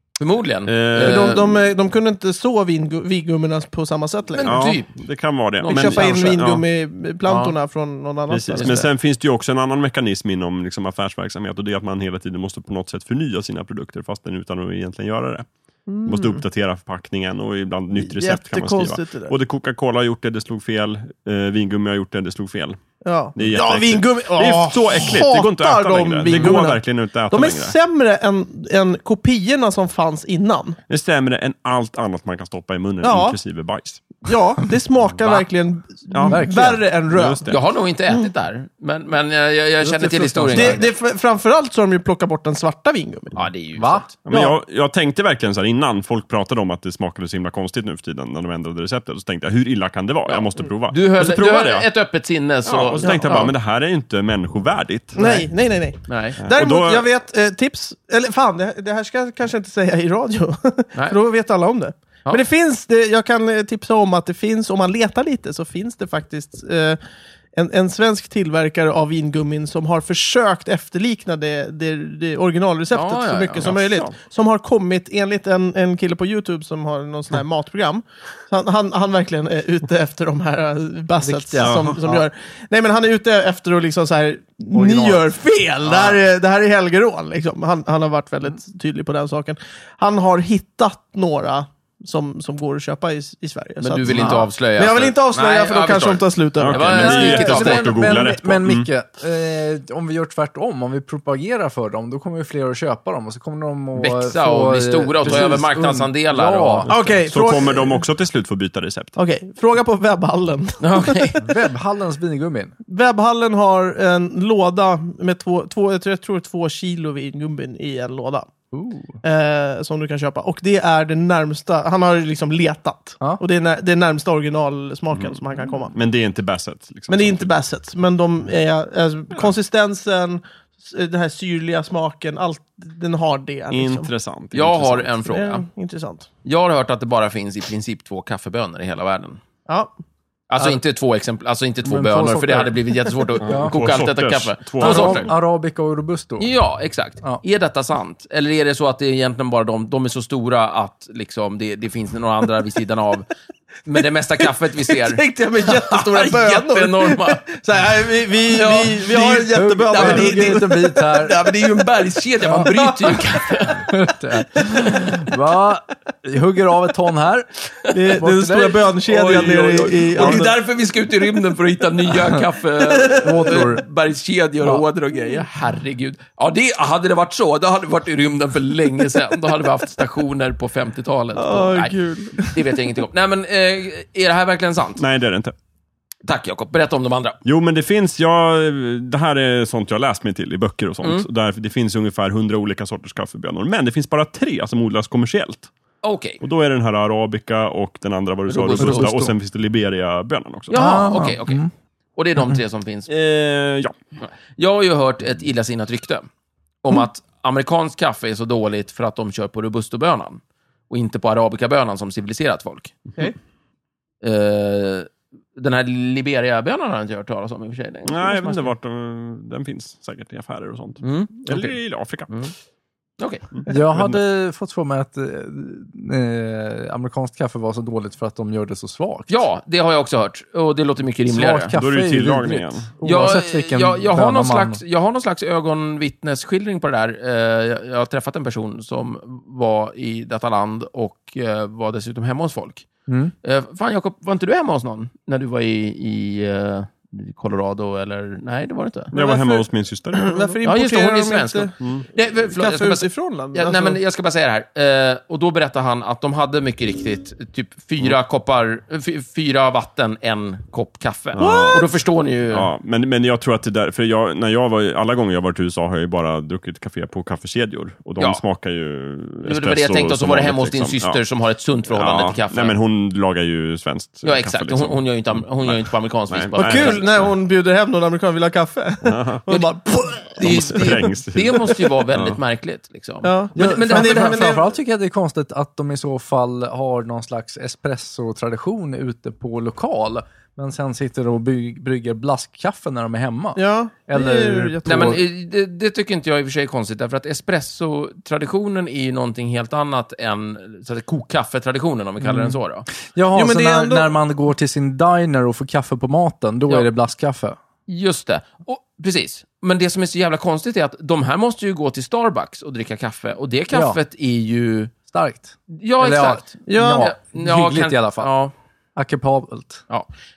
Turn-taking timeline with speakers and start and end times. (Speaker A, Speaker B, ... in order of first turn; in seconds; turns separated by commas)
Speaker A: 0.2-1.5, Speaker B: 0.7-1.4, Speaker C: 1.0-4.6, Speaker A: 4.3-5.0, Speaker B: 4.4-6.6, Speaker A: 5.6-6.4, Speaker C: 5.7-8.7, Speaker A: 7.2-7.5, Speaker B: 8.3-15.5, Speaker A: 8.5-8.9, Speaker C: 15.9-16.4, Speaker B: 16.0-22.8, Speaker C: 17.9-19.3, Speaker C: 23.0-30.8, Speaker B: 23.3-27.8, Speaker D: 26.3-26.7, Speaker B: 30.9-34.1, Speaker C: 33.0-33.4, Speaker C: 34.2-37.5, Speaker B: 36.1-36.5, Speaker D: 36.2-36.8, Speaker B: 37.1-37.7, Speaker A: 37.5-40.8, Speaker D: 39.8-40.9, Speaker C: 40.5-43.4, Speaker A: 43.4-44.1, Speaker D: 43.8-44.1, Speaker B: 44.2-51.9, Speaker C: 44.3-44.5, Speaker A: 50.2-53.5, Speaker B: 52.6-55.2, Speaker C: 53.2-53.5, Speaker C: 55.1-67.0, Speaker A: 55.2-55.4, Speaker A: 56.1-56.4, Speaker B: 56.4-57.1, Speaker C: 67.5-97.3, Speaker A: 72.9-73.8, Speaker B: 73.6-74.1, Speaker D: 81.2-82.2, Speaker B: 81.6-82.0, Speaker D: 84.7-85.2, Speaker A: 85.9-86.2, Speaker A: 93.8-98.1, Speaker D: 94.1-94.4, Speaker B: 96.6-98.9, Speaker D: 96.9-106.9, Speaker A: 103.9-106.9, Speaker B: 106.9-109.2, Speaker C: 106.9-108.0, Speaker C: 109.2-111.3, Speaker A: 110.8-111.4, Speaker D: 111.4-112.7, Speaker C: 112.9-118.5, Speaker D: 118.7-119.2, Speaker C: 119.2-125.9, Speaker B: 125.9-127.5, Speaker C: 127.1-134.1, Speaker B: 133.7-135.1, Speaker A: 134.5-135.6, Speaker C: 135.2-136.3, Speaker A: 136.4-139.4, Speaker C: 139.7-139.9, Speaker A: 140.5-145.3, Speaker D: 141.8-142.8, Speaker D: 143.4-143.7, Speaker B: 143.5-145.3, Speaker D: 144.8-146.5, Speaker A: 146.4-153.3, Speaker A: 153.8-157.5, Speaker C: 154.9-160.9, Speaker A: 158.5-163.9, Speaker D: 159.2-161.4, Speaker D: 162.4-162.8, Speaker C: 162.7-163.2, Speaker D: 163.7-169.0, Speaker C: 167.9-170.5, Speaker A: 169.1-185.0, Speaker B: 170.2-170.4, Speaker C: 172.9-173.5, Speaker D: 173.1-173.8, Speaker C: 181.3-182.9, Speaker B: 185.0-185.5, Speaker A: 186.2-187.4, Speaker B: 187.4-195.7, Speaker A: 191.0-191.3, Speaker A: 196.0-196.4, Speaker B: 196.4-201.2, Speaker A: 198.5-199.3, Speaker D: 198.8-199.1, Speaker A: 200.7-203.1, Speaker D: 200.7-201.7, Speaker B: 203.1-203.9, Speaker A: 204.2-206.2, Speaker A: 206.8-213.1, Speaker A: 214.2-218.7, Speaker B: 218.0-222.3, Speaker A: 221.0-221.8, Speaker A: 223.2-223.5, Speaker B: 223.5-224.2, Speaker D: 223.7-229.4, Speaker A: 229.3-231.7, Speaker D: 231.3-234.8, Speaker B: 231.7-232.9, Speaker A: 233.0-242.9, Speaker D: 243.1-243.3, Speaker A: 243.4-249.1, Speaker B: 249.1-250.6, Speaker C: 249.1-251.7, Speaker A: 250.6-262.7, Speaker B: 251.8-252.1, Speaker C: 252.5-254.0, Speaker B: 261.3-261.9, Speaker C: 261.4-261.9, Speaker B: 262.5-271.2, Speaker A: 269.4-272.8, Speaker B: 271.9-277.3, Speaker A: 274.2-277.0, Speaker C: 276.5-280.9, Speaker B: 279.0-279.4, Speaker A: 280.4-284.5, Speaker B: 280.4-282.4, Speaker C: 283.2-284.7, Speaker D: 283.6-295.2, Speaker C: 293.6-295.2, Speaker A: 294.8-302.9, Speaker D: 302.2-307.6, Speaker C: 303.3-304.1, Speaker A: 307.9-314.9, Speaker D: 313.7-314.0, Speaker D: 315.1-318.3, Speaker A: 315.7-318.5, Speaker C: 316.7-317.1, Speaker D: 318.9-319.8